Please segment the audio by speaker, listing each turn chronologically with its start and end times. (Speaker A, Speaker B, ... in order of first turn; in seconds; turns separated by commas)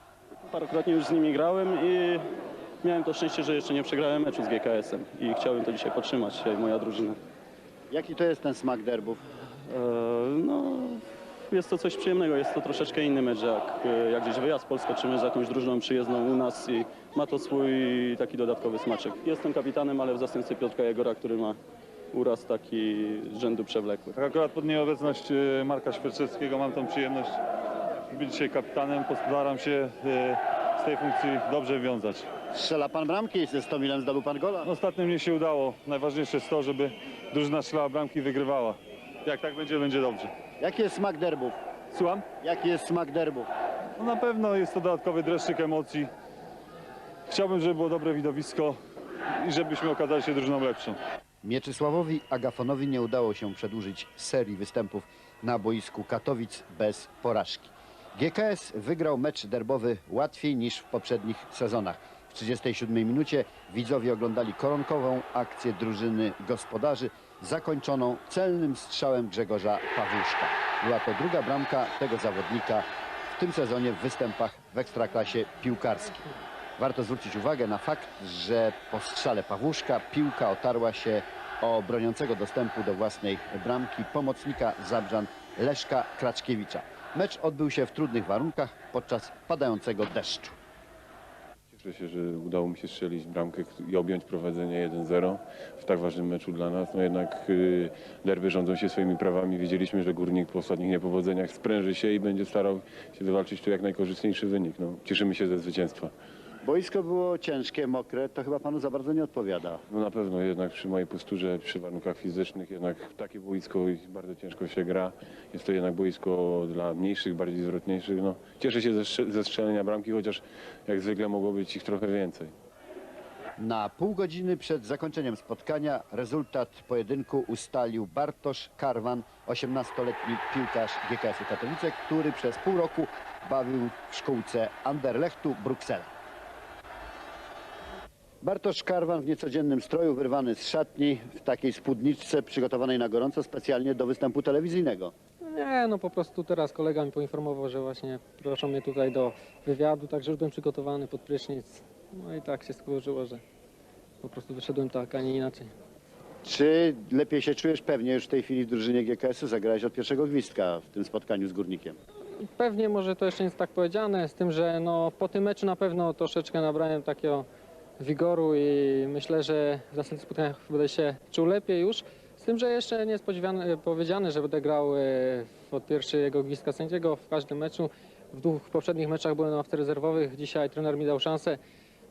Speaker A: 0.5-2.2, Speaker A: 2.8-7.2, Speaker B: 7.9-9.2, Speaker A: 9.7-21.6, Speaker A: 22.1-24.1, Speaker C: 24.1-27.4, Speaker C: 28.1-32.3, Speaker B: 32.5-34.7, Speaker C: 34.6-40.3, Speaker B: 40.6-41.6, Speaker C: 41.9-42.2, Speaker B: 42.4-43.5, Speaker C: 44.0-46.1, Speaker C: 47.3-48.8, Speaker C: 49.3-51.0, Speaker B: 51.4-90.6, Speaker D: 91.7-106.1, Speaker B: 106.6-109.8, Speaker D: 109.9-122.5, Speaker B: 123.6-136.1, Speaker B: 138.4-145.1, Speaker E: 145.5-153.4, Speaker E: 154.2-155.7, Speaker B: 156.4-162.0, Speaker E: 162.6-167.4, Speaker E: 168.0-181.6